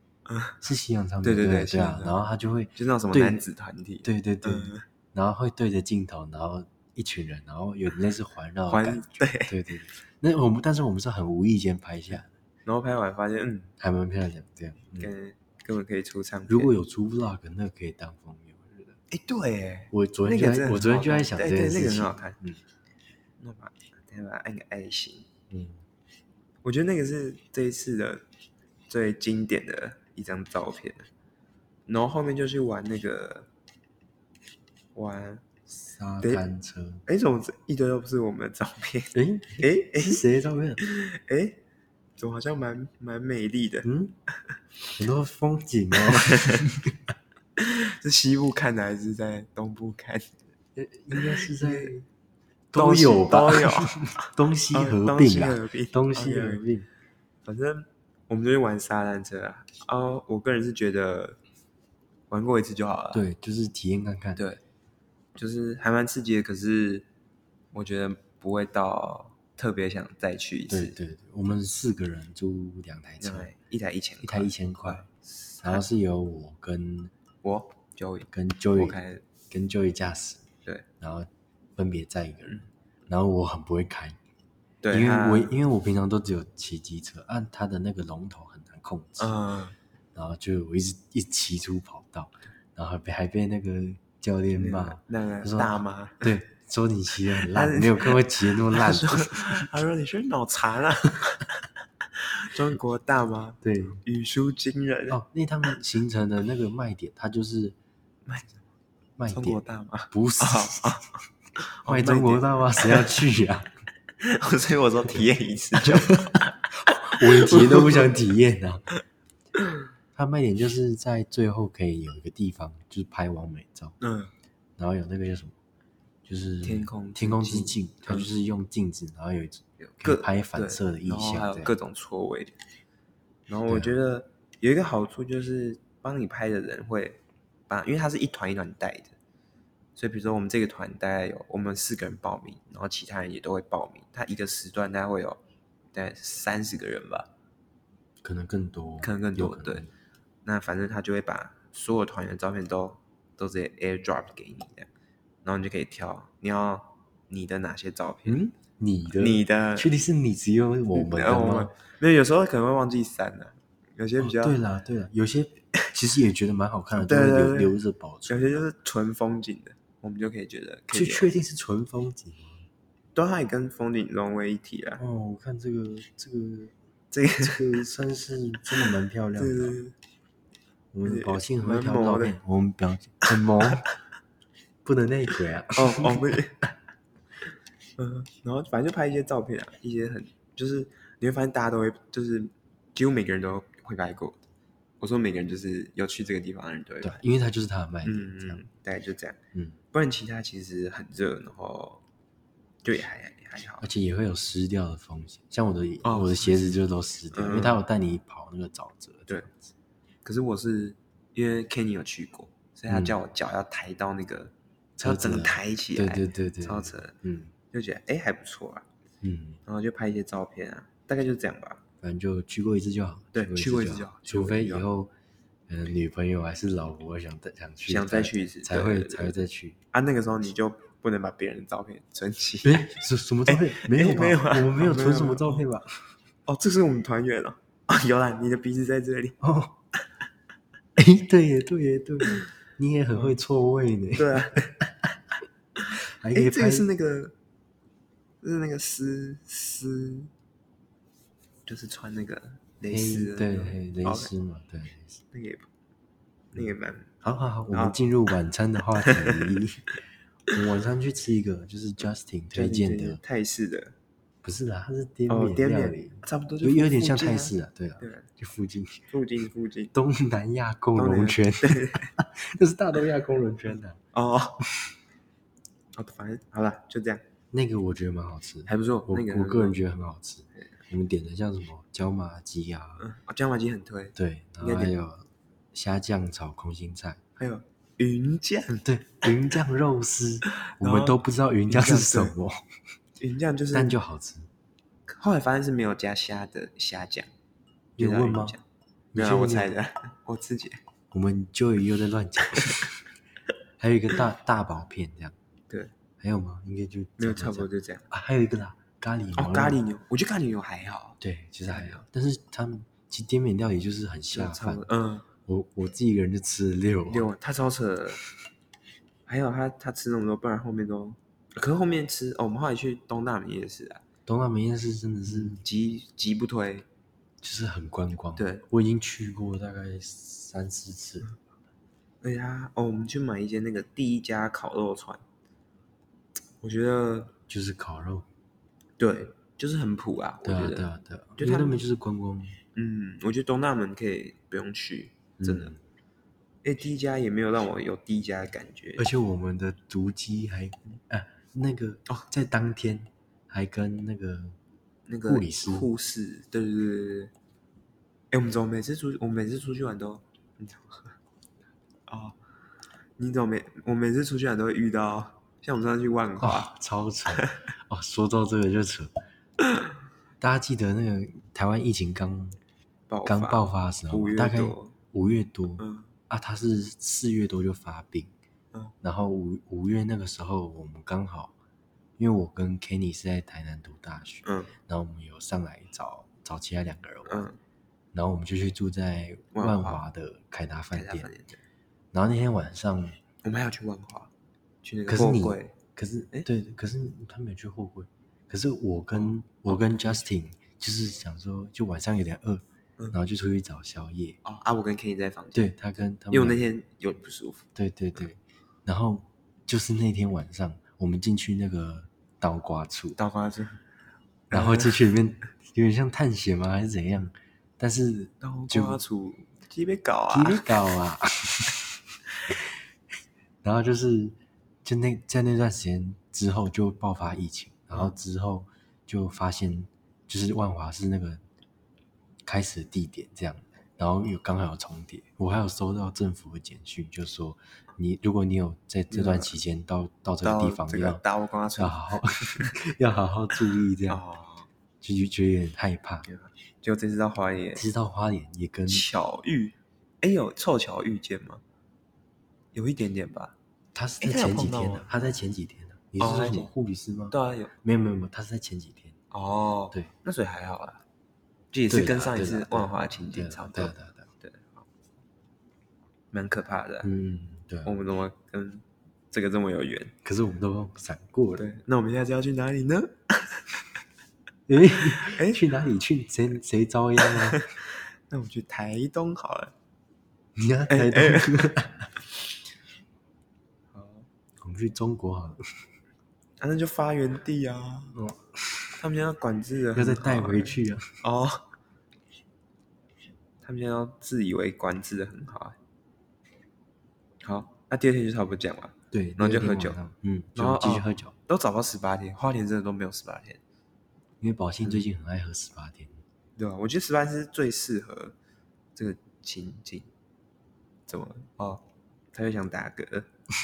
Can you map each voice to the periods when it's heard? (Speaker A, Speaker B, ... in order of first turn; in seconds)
Speaker A: 0.3-0.6, 1.2-2.2, 2.7-4.8, 8.7-9.5, 12.1-13.7, 15.0-16.7, 19.1-22.4, 23.4-25.3, 26.6-28.2, 28.9-31.1, 31.9-33.5, 34.9-35.5, 37.0-40.2, 40.8-41.6, 42.2-43.9, 46.0-46.6, 47.6-50.3, 51.1-51.9, 52.7-56.6, 57.4-61.4, 62.3-63.2, 64.3-64.6, 65.3-67.1, 67.7-71.0, 73.2-75.8, 77.4-79.2, 84.8-85.6, 89.2-89.7, 94.5-96.3, 97.3-101.6, 102.5-105.2, 108.2-108.6, 109.3-111.1, 111.6-113.3, 114.2-118.1, 124.0-124.3, 126.6-128.3, 129.8-132.5, 133.5-139.1, 139.9-145.4, 145.9-147.3, 149.0-149.9, 150.4-154.9, 155.4-158.4, 159.1-159.9, 160.9-164.6, 166.9-167.8, 168.3-171.3, 173.1-175.0, 177.1-177.9, 179.3-179.9, 181.0-182.4, 183.4-183.8, 185.8-186.6, 188.0-194.4, 195.0-197.2, 198.0-199.4, 199.9-202.0, 202.8-203.8, 206.0-206.7, 207.3-207.8, 210.2-217.1, 217.7-218.8, 219.6-221.8, 223.3-224.9, 227.8-229.4, 229.9-235.6, 236.5-239.4, 244.1-244.8, 245.9-247.3, 248.4-250.3, 251.7-254.3, 255.3-255.7, 256.5-257.1, 257.7-258.0, 259.1-259.6, 262.5-263.9, 265.3-268.3, 269.1-269.9, 270.9-272.1, 274.1-274.6, 275.9-277.2, 278.7-279.7, 283.0-285.0, 287.4-288.8, 290.6-291.2, 291.7-292.3, 293.2-293.9, 295.1-297.3, 298.0-298.6, 299.1-300.8, 307.2-308.1, 309.4-312.0, 314.3-315.3, 317.1-318.2, 319.3-324.0, 325.3-326.9, 328.4-328.6, 332.2-335.2, 336.6-337.3, 339.0-341.8, 342.7-345.7, 346.6-349.1, 355.1-357.3, 358.3-361.1, 362.1-362.4, 363.2-366.7, 367.3-367.6, 373.1-374.9, 375.8-376.1, 384.4-384.7, 387.2-387.6, 389.5-390.0, 390.9-391.6, 393.4-394.3, 394.8-395.7, 399.2-400.1, 404.4-405.7, 406.3-407.6, 413.2-413.8, 414.5-415.0, 418.4-420.7, 439.1-439.5, 440.4-442.7, 444.1-444.7, 446.2-447.8, 448.9-451.6, 452.7-453.5, 454.2-455.1, 456.2-456.7, 457.3-457.7, 459.3-461.0, 461.7-464.9, 466.3-467.1, 467.8-470.1, 471.6-473.8, 475.0-475.6, 477.2-479.7, 480.9-481.8, 483.9-484.3, 486.6-488.1, 489.0-491.6, 493.6-495.8, 497.4-500.0, 500.6-503.6, 506.6-508.3, 508.9-510.1, 511.1-513.3
Speaker B: 0.6-3.4, 4.0-12.3, 13.8-15.1, 16.5-19.0, 19.9-22.6, 25.5-25.8, 35.7-37.0, 39.1-40.8, 43.8-44.1, 44.9-46.9, 50.8-52.0, 52.7-56.9, 63.1-64.4, 70.7-73.5, 74.2-75.1, 75.6-77.1, 78.3-80.5, 81.0-84.2, 84.9-89.3, 90.1-99.8, 103.6-104.0, 105.1-107.8, 109.2-111.0, 111.8-113.7, 115.8-116.5, 117.0-118.9, 120.1-124.0, 124.8-125.5, 126.2-131.7, 133.7-133.9, 148.2-149.9, 158.2-161.7, 164.2-168.7, 170.9-172.6, 175.0-176.7, 177.4-179.8, 180.9-183.8, 184.8-186.4, 197.0-198.6, 203.8-209.6, 212.9-213.2, 215.0-217.5, 219.2-219.6, 222.0-225.1, 225.7-229.8, 232.6-235.9, 239.4-239.7, 240.9-244.9, 246.2-246.9, 252.8-255.2, 257.2-260.0, 260.5-263.2, 264.4-269.1, 269.9-274.0, 277.5-283.1, 284.1-287.2, 288.8-292.6, 293.7-294.5, 298.0-298.6, 299.1-299.7, 301.1-303.0, 303.8-305.3, 306.2-309.8, 311.2-314.8, 315.4-317.3, 324.2-325.6, 327.4-331.3, 337.5-338.3, 340.4-342.6, 345.4-345.8, 349.0-354.6, 355.2-355.9, 366.4-369.1, 370.4-372.6, 373.2-378.3, 379.0-381.5, 382.2-387.5, 388.1-391.3, 392.1-393.2, 395.1-404.4, 405.5-406.6, 407.7-413.2, 414.5-419.0, 420.3-421.9, 423.6-431.4, 432.4-441.2, 441.8-444.2, 445.0-446.3, 447.7-449.1, 453.9-459.1, 461.9-464.3, 467.0-468.0, 470.2-471.7, 474.7-477.6, 480.6-482.1, 484.6-485.7, 488.1-489.0, 489.9-491.2, 499.1-501.3, 504.4-506.2